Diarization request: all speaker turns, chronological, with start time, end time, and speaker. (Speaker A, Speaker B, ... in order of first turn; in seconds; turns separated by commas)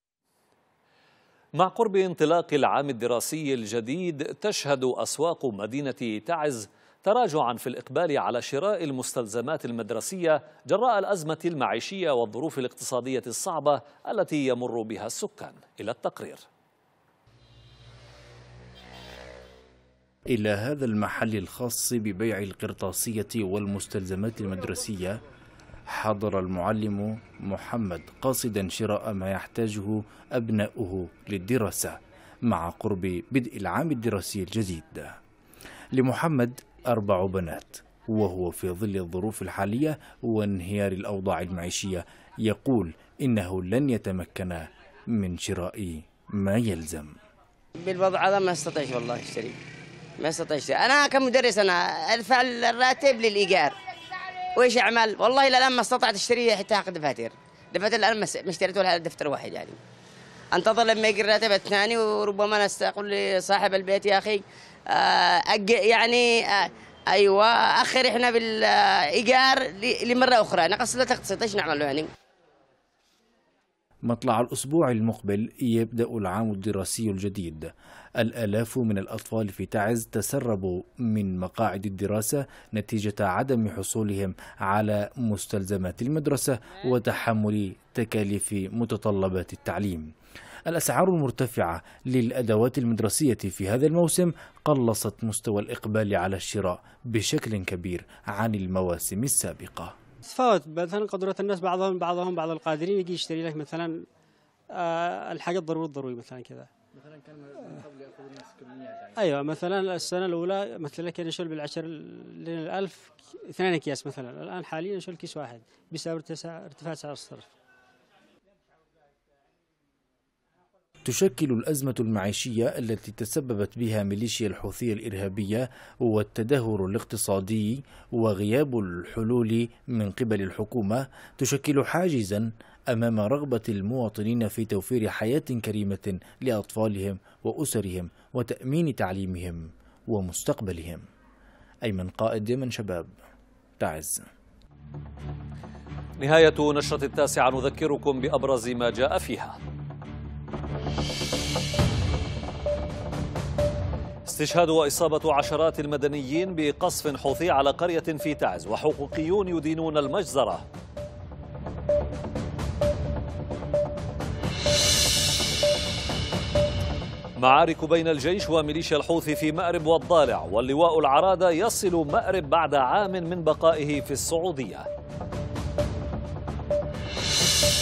Speaker A: 1.6-16.4, Speaker B: 20.3-25.2, Speaker B: 25.9-35.1, Speaker B: 35.9-47.2, Speaker C: 47.8-49.6, Speaker C: 50.2-53.8, Speaker C: 54.6-59.8, Speaker C: 60.5-72.1, Speaker B: 74.1-90.1, Speaker B: 90.7-100.0, Speaker D: 100.2-104.0, Speaker D: 104.7-106.7, Speaker D: 107.6-107.9, Speaker D: 109.2-117.5, Speaker B: 121.0-141.1, Speaker B: 141.9-143.2, Speaker B: 143.8-144.3, Speaker A: 146.2-149.6, Speaker A: 154.3-160.7, Speaker A: 167.4-174.9